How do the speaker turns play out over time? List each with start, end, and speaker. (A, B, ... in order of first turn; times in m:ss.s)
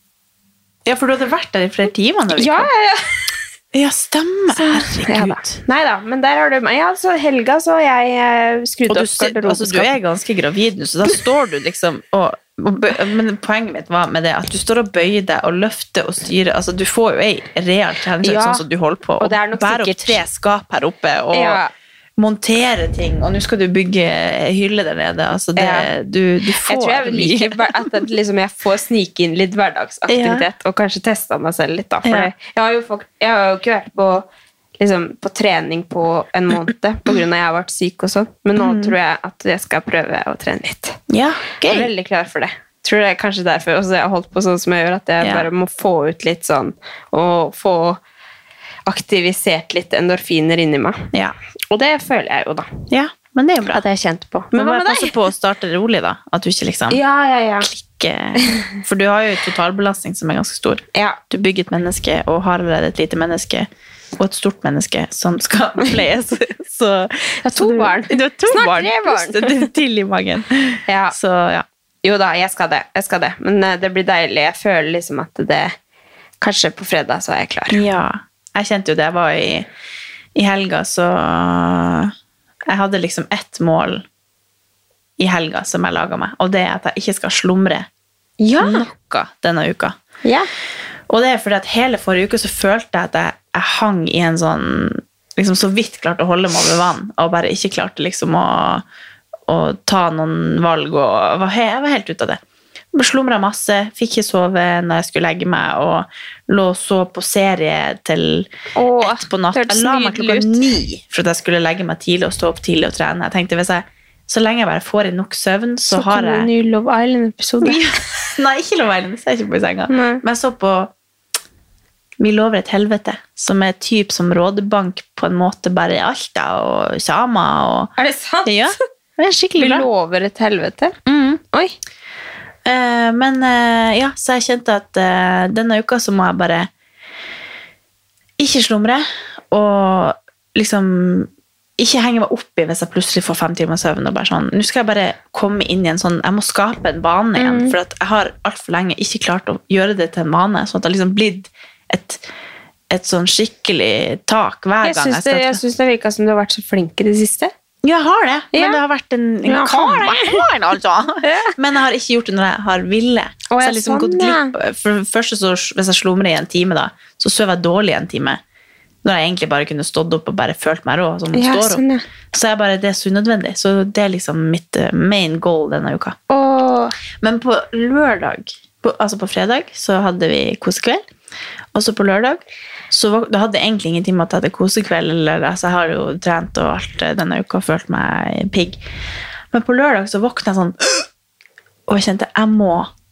0:00.8-0:02.7 A
0:02.3-0:03.0 B
0:03.7-0:05.6 A
0:04.5-0:09.9 B
0:08.9-0:21.6 A
0:18.2-0:18.6 B
0:19.2-0:20.2 B
0:21.3-0:21.7 B
0:22.2-0:28.0 A
0:25.6-0:25.9 B
0:26.7-0:34.3 B
0:30.1-0:30.5 A
0:32.0-0:32.3 A
0:34.8-0:41.0 B
0:38.6-0:39.0 A
0:41.1-0:41.9 A
0:41.7-0:48.0 B
0:45.2-0:45.5 A
0:48.9-0:51.0 B
0:51.7-0:52.7 B
0:52.9-0:53.8 A
0:53.7-0:55.2 B
0:54.5-0:57.0 A
0:56.9-0:57.7 B
0:57.6-1:11.6 A
1:07.4-1:09.7 B
1:10.9-1:11.2 B
1:12.0-1:15.7 B
1:16.4-1:17.8 B
1:17.7-1:19.7 A
1:20.4-1:22.1 A
1:22.7-1:24.0 A
1:25.2-1:27.9 A
1:28.4-1:28.9 B
1:28.6-1:30.0 A
1:31.1-1:38.8 A
1:39.5-1:42.4 A
1:42.9-1:48.5 A
1:48.8-1:50.6 B
1:49.0-1:56.5 A
1:55.9-1:57.8 B
1:57.6-2:00.9 A
1:59.9-2:00.2 B
2:02.2-2:07.9 A
2:08.0-2:08.8 B
2:08.4-2:09.9 A
2:09.6-2:11.0 B
2:11.1-2:11.4 A
2:12.6-2:16.7 A
2:18.4-2:32.2 A
2:27.4-2:27.8 B
2:32.9-2:35.6 A
2:34.8-2:37.5 B
2:37.8-2:48.4 A
2:38.5-2:38.8 B
2:39.4-2:40.4 B
2:41.2-2:41.5 B
2:43.5-2:44.5 B
2:49.0-2:56.2 A
2:51.3-2:52.0 B
2:56.3-2:56.9 B
2:57.2-3:01.0 A
3:01.7-3:08.8 A
3:09.5-3:11.1 A
3:11.9-3:12.9 A